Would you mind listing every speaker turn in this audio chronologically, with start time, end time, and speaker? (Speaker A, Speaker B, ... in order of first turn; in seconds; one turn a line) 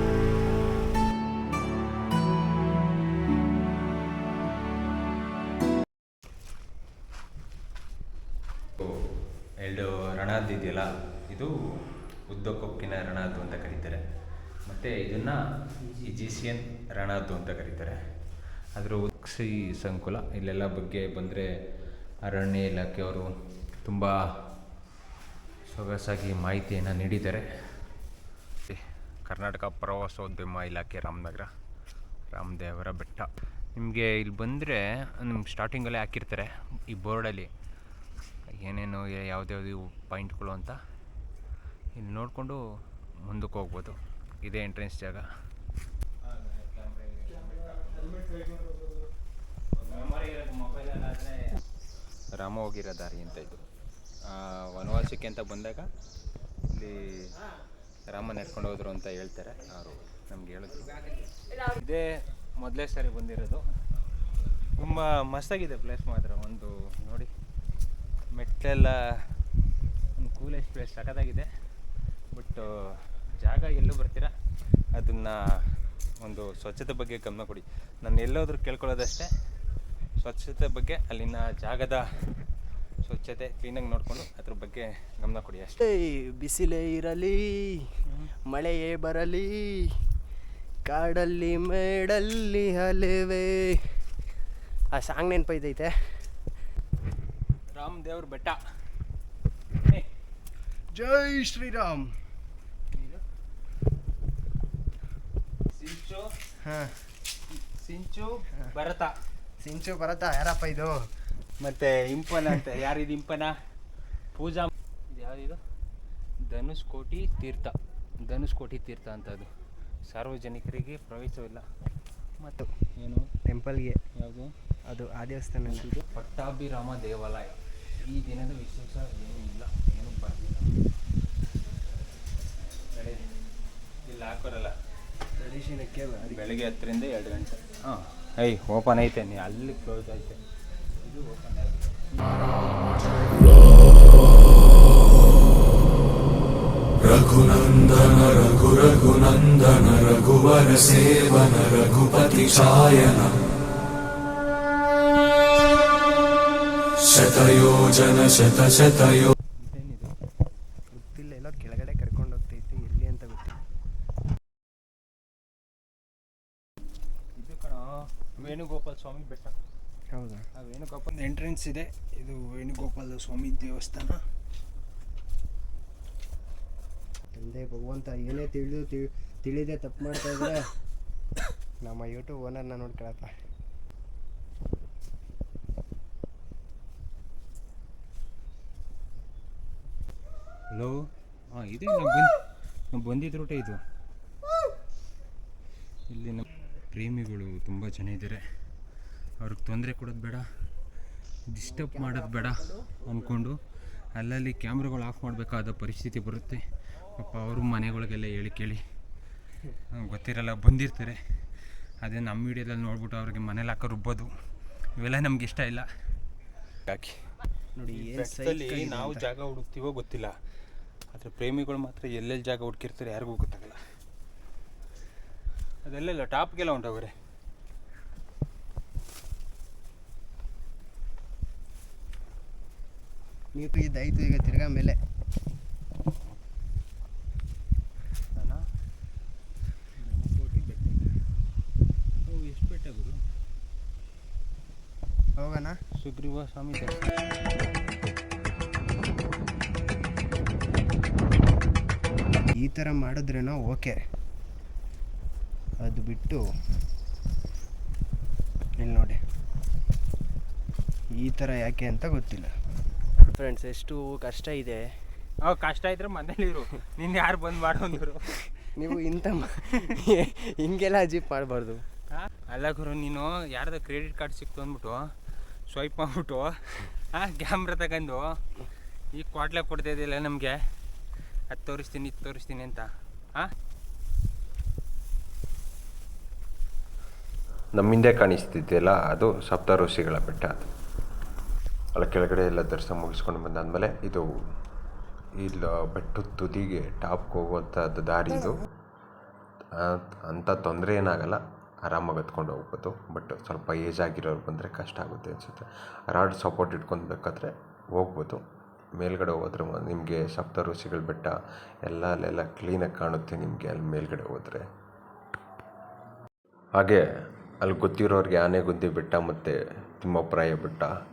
Speaker A: 9.6-11.6
Speaker A: 12.3-14.0
Speaker A: 14.7-15.4
Speaker A: 15.9-18.0
Speaker A: 18.8-21.5
Speaker A: 22.2-23.3
Speaker A: 23.8-24.2
Speaker A: 25.7-27.5
Speaker A: 28.7-31.5
Speaker A: 32.3-37.5
Speaker A: 38.5-40.8
Speaker A: 42.0-42.6
Speaker A: 43.3-45.3
Speaker A: 46.2-48.8
Speaker A: 49.8-51.6
Speaker A: 52.4-53.6
Speaker A: 54.2-55.9
Speaker A: 56.7-57.3
Speaker A: 58.1-63.6
Speaker A: 64.8-67.3
Speaker A: 68.3-69.2
Speaker A: 70.2-71.5
Speaker A: 72.3-74.3
Speaker A: 74.9-79.3
Speaker A: 80.2-82.4
Speaker A: 83.0-85.8
Speaker B: 85.8-87.8
Speaker B: 88.5-89.9
Speaker B: 90.8-94.0
Speaker B: 94.9-96.3
Speaker A: 97.7-98.6
Speaker A: 99.8-100.1
Speaker B: 100.9-102.2
Speaker A: 102.9-103.2
Speaker A: 105.7-106.3
Speaker B: 106.6-107.0
Speaker A: 107.5-109.1
Speaker B: 109.6-111.0
Speaker A: 111.6-113.6
Speaker A: 114.3-115.6
Speaker A: 116.4-119.5
Speaker A: 120.1-121.6
Speaker A: 122.4-123.3
Speaker B: 123.5-124.0
Speaker A: 124.2-124.5
Speaker B: 124.9-125.9
Speaker A: 125.7-130.7
Speaker A: 132.9-133.2
Speaker A: 134.0-134.7
Speaker B: 135.4-136.5
Speaker A: 136.3-140.4
Speaker A: 141.0-142.1
Speaker C: 147.0-153.4
Speaker C: 157.0-159.3
Speaker A: 159.6-160.1
Speaker B: 160.9-163.6
Speaker A: 167.3-169.6
Speaker B: 170.1-170.5
Speaker A: 170.6-174.2
Speaker B: 177.3-180.7
Speaker B: 181.8-183.3
Speaker A: 190.7-191.0
Speaker A: 191.5-192.3
Speaker A: 192.9-193.8
Speaker A: 196.1-198.4
Speaker A: 199.4-200.5
Speaker A: 201.5-203.6
Speaker B: 201.6-203.0
Speaker A: 204.2-208.8
Speaker A: 209.9-211.4
Speaker A: 212.0-214.3
Speaker A: 215.0-215.9
Speaker A: 216.9-217.2
Speaker B: 217.8-219.3
Speaker A: 217.9-220.4
Speaker A: 221.1-223.8
Speaker A: 225.8-227.1
Speaker B: 233.6-235.0
Speaker A: 238.3-238.7
Speaker A: 240.0-241.1
Speaker A: 242.2-243.2
Speaker B: 245.4-245.8
Speaker A: 246.0-247.3
Speaker B: 252.5-254.0
Speaker B: 255.8-256.4
Speaker B: 258.8-259.2
Speaker B: 261.1-262.5
Speaker B: 263.2-264.9
Speaker A: 265.4-268.7
Speaker B: 268.8-271.9
Speaker A: 272.1-275.1
Speaker A: 275.7-278.4
Speaker A: 279.1-280.7
Speaker A: 281.5-283.5
Speaker D: 287.8-290.6
Speaker D: 292.0-294.3
Speaker D: 295.4-298.6
Speaker D: 299.8-308.4
Speaker D: 309.0-311.3
Speaker D: 311.9-314.7
Speaker D: 316.8-317.0
Speaker D: 317.6-320.9